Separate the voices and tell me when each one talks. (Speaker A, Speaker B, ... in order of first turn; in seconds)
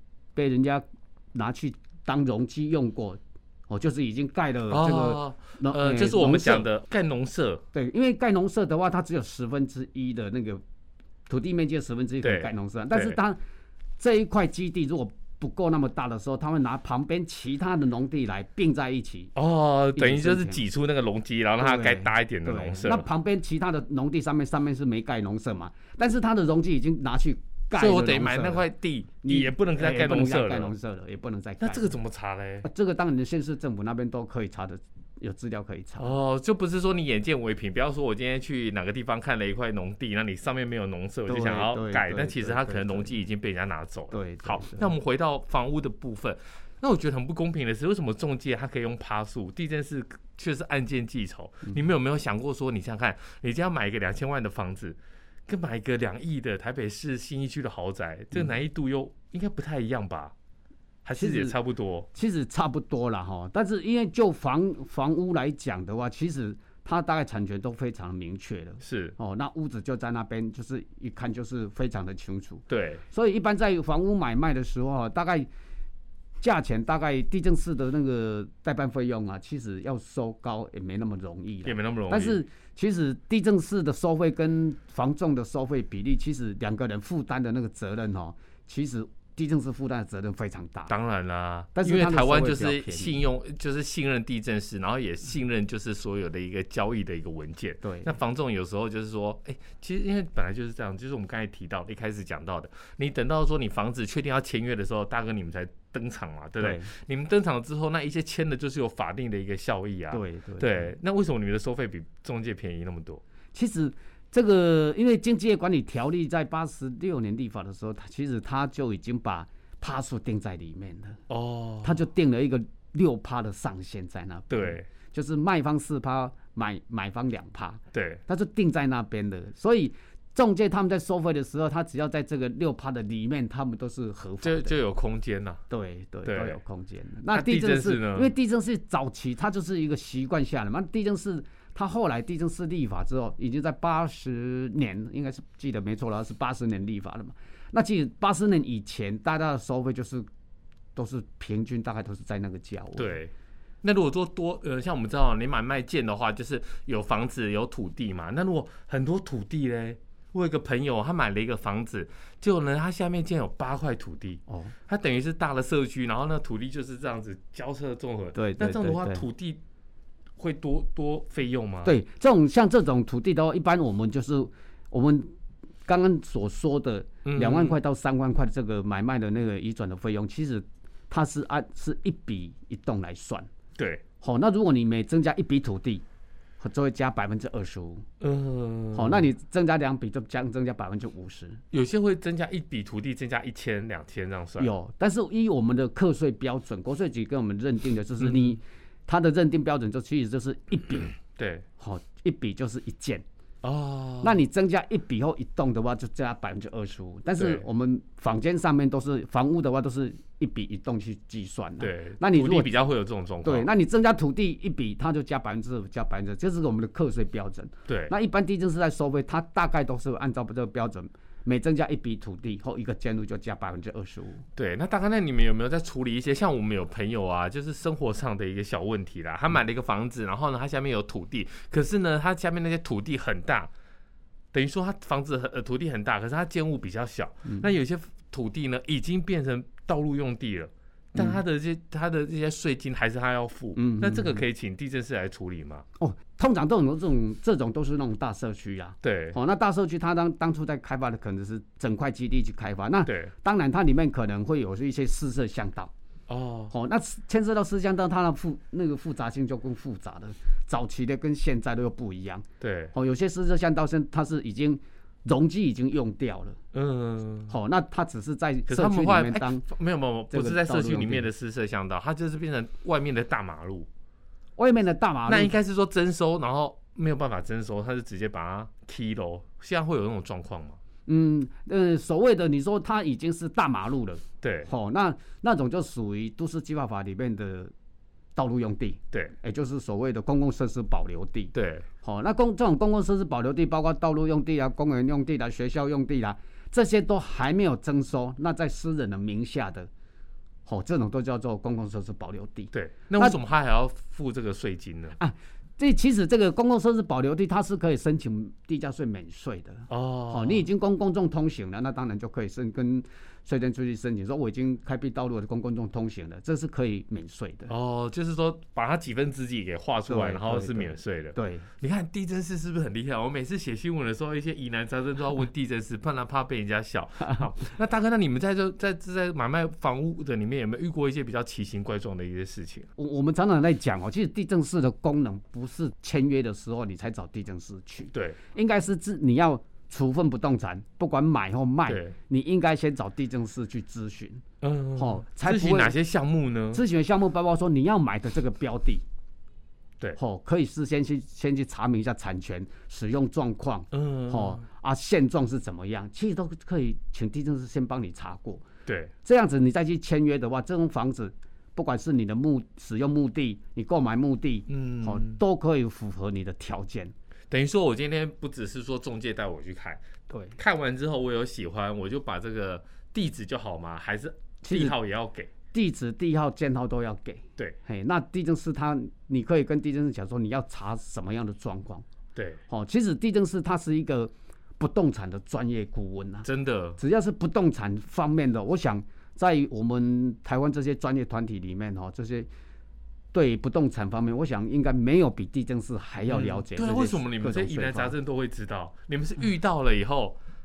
Speaker A: 0.3-6.7, 7.7-10.6, 11.3-13.4, 14.0-19.3, 19.9-20.6, 21.6-28.7, 29.2-31.9, 32.6-36.1, 41.3-43.1, 44.1-44.9, 61.2-61.6, 62.1-75.5, 76.4-90.9, 91.8-93.2, 97.8-98.2, 106.6-106.9, 110.1-110.9, 113.5-121.2, 121.8-134.8, 135.7-150.3, 150.9-153.2, 164.5-164.7, 168.3-169.3, 171.8-175.3, 175.9-183.5, 184.2-186.0, 186.6-188.1, 188.9-191.6, 194.6-201.2, 201.8-203.2, 204.2-212.7, 213.4-224.4, 241.1-241.4, 243.8-244.4, 246.0-255.9, 256.7-266.6, 267.5-269.6, 270.3-271.3, 274.6-275.5, 281.1-287.7, 288.4-299.9, 300.7-303.4, 305.2-317.7, 320.1-321.7, 333.0-344.4, 345.0-345.9, 346.7-349.0, 350.2-358.7, 359.2-367.1, 370.3-370.6, 374.6-375.0, 375.7-382.1, 382.7-386.5, 387.0-392.5, 393.3-398.1
Speaker B: 4.7-7.6, 12.2-13.2, 19.4-23.1, 27.7-30.7, 31.6-32.7, 36.0-60.3, 61.0-62.1, 68.8-69.2, 72.7-73.0, 81.7-82.4, 90.9-113.2, 121.3-122.0, 124.5-124.9, 127.9-128.2, 134.4-135.6, 136.2-136.6, 137.3-138.3, 153.0-169.6, 170.4-171.9, 177.2-177.8, 183.8-184.0, 188.2-189.3, 191.7-194.7, 198.2-198.6, 201.3-201.7, 203.6-204.4, 207.4-207.7, 211.8-213.7, 217.9-218.1, 224.6-233.7, 234.5-245.8, 249.0-249.4, 253.1-253.3, 256.3-256.7, 262.6-262.9, 266.7-267.5, 268.7-273.9, 275.3-280.8, 284.4-284.7, 291.5-291.9, 302.7-305.2, 309.9-310.6, 317.7-332.9, 338.1-338.4, 341.9-342.1, 344.6-346.8, 353.9-354.6, 358.9-359.1, 364.7-365.4, 367.5-370.0, 370.6-375.5, 382.4-382.6, 386.4-387.0, 396.3-400.4